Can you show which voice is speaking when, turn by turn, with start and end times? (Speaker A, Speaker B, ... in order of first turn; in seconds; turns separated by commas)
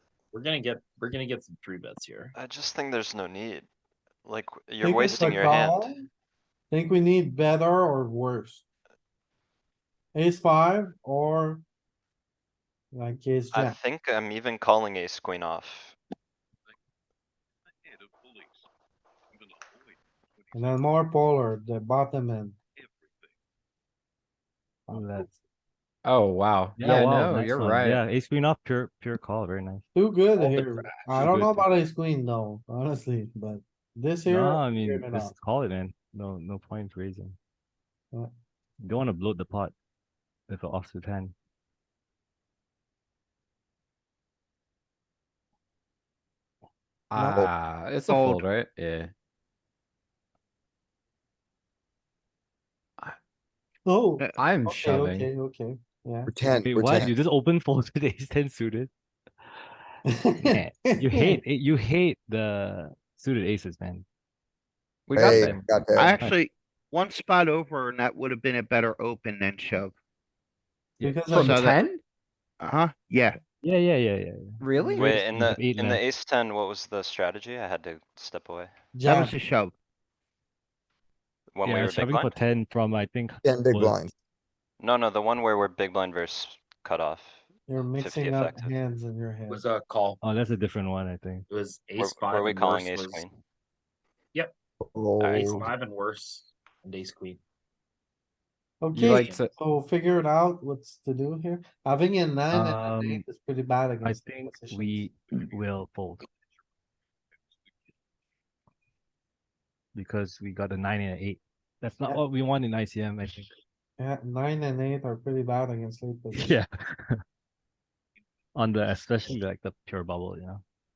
Speaker A: 0.3-2.3, Speaker B: 2.4-3.7, Speaker B: 4.3-5.9, Speaker C: 4.8-6.0, Speaker C: 6.7-8.6, Speaker C: 10.1-11.6, Speaker C: 12.9-13.8, Speaker B: 13.5-16.0, Speaker C: 20.5-22.6, Speaker C: 24.9-25.4, Speaker D: 24.9-25.3, Speaker E: 26.1-28.0, Speaker D: 26.8-29.8, Speaker C: 29.9-35.3, Speaker D: 31.1-31.8, Speaker D: 34.3-37.4, Speaker D: 38.8-39.7, Speaker D: 40.5-41.3, Speaker E: 47.1-49.1, Speaker C: 47.2-47.5, Speaker F: 48.1-48.5, Speaker C: 53.9-56.3, Speaker E: 54.4-55.3, Speaker G: 56.3-57.1, Speaker D: 56.6-58.9, Speaker C: 60.1-61.4, Speaker D: 60.4-64.0, Speaker E: 65.1-65.6, Speaker G: 65.2-66.2, Speaker D: 65.4-66.4, Speaker F: 65.9-69.9, Speaker C: 71.0-71.6, Speaker E: 71.3-72.0, Speaker F: 71.3-71.8, Speaker F: 72.6-73.4, Speaker D: 73.6-76.0, Speaker E: 74.6-75.2, Speaker C: 74.8-75.0, Speaker B: 75.0-78.7, Speaker C: 79.0-79.4, Speaker F: 79.0-79.7, Speaker B: 81.5-82.3, Speaker D: 81.6-84.1, Speaker G: 83.4-84.1, Speaker B: 84.8-87.4, Speaker C: 87.7-89.7, Speaker B: 88.0-88.7, Speaker A: 89.5-90.2, Speaker D: 90.2-91.5, Speaker A: 91.5-93.2, Speaker B: 92.0-93.3, Speaker G: 94.8-95.7, Speaker A: 95.2-97.4, Speaker C: 98.8-105.1, Speaker E: 98.9-99.5, Speaker A: 99.1-99.4, Speaker D: 102.5-103.2, Speaker D: 104.0-106.2, Speaker D: 110.0-113.5, Speaker C: 114.0-116.6, Speaker D: 116.3-117.2, Speaker D: 118.5-120.6